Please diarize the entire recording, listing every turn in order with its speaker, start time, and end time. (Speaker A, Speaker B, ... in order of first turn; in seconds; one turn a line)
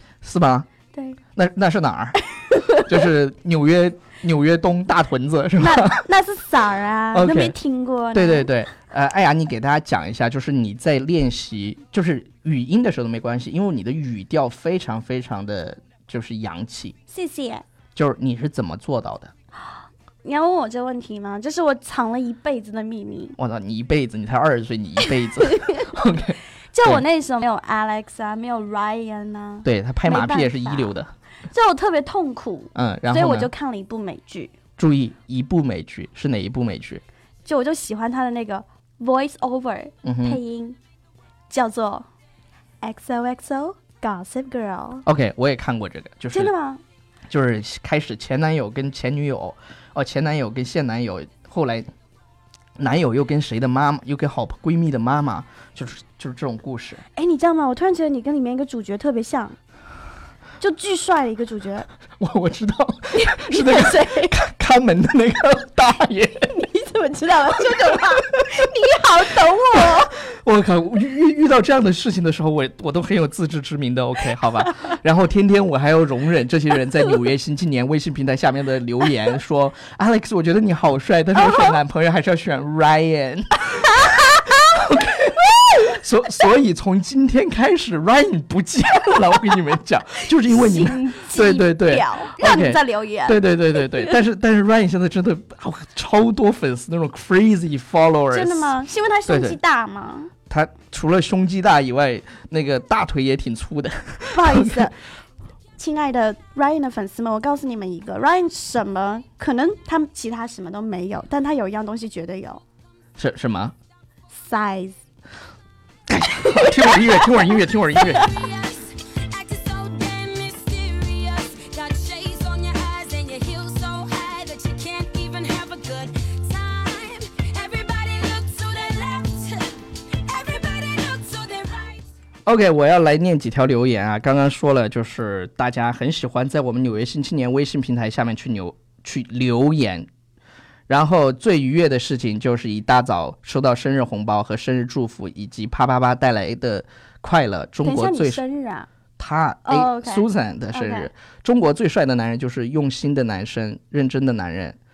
Speaker A: 0.2-0.7
Speaker B: 0.9-1.2
Speaker A: 1.4-6.0
Speaker B: 2.5-2.9
Speaker B: 5.6-8.5
Speaker A: 7.1-7.6
Speaker A: 8.1-17.0
Speaker B: 17.1-17.6
Speaker A: 17.9-19.3
Speaker B: 20.2-23.4
Speaker A: 23.4-27.0
Speaker B: 25.4-25.9
Speaker B: 26.7-31.0
Speaker A: 29.6-31.1
Speaker B: 31.5-34.5
Speaker A: 32.8-33.5
Speaker A: 34.8-37.0
Speaker B: 37.5-40.8
Speaker A: 40.0-40.4
Speaker B: 41.5-42.1
Speaker B: 42.8-45.0
Speaker A: 45.1-46.5
Speaker B: 46.3-46.8
Speaker A: 47.3-51.9
Speaker A: 52.8-57.0
Speaker B: 57.1-59.6
Speaker B: 60.6-61.9
Speaker A: 62.2-66.5
Speaker B: 63.2-64.3
Speaker B: 66.5-70.2
Speaker A: 70.3-84.1
Speaker B: 83.8-84.7
Speaker A: 84.7-99.6
Speaker B: 90.5-94.1
Speaker B: 98.3-100.3
Speaker A: 100.5-104.9
Speaker B: 104.3-105.0
Speaker B: 105.8-112.6
Speaker A: 113.2-113.8
Speaker B: 114.3-115.0
Speaker A: 116.1-118.3
Speaker B: 116.6-117.0
Speaker C: 118.1-132.1
Speaker A: 132.5-140.1
Speaker A: 140.9-148.4
Speaker B: 147.8-148.9
Speaker A: 149.2-154.8
Speaker B: 149.7-151.1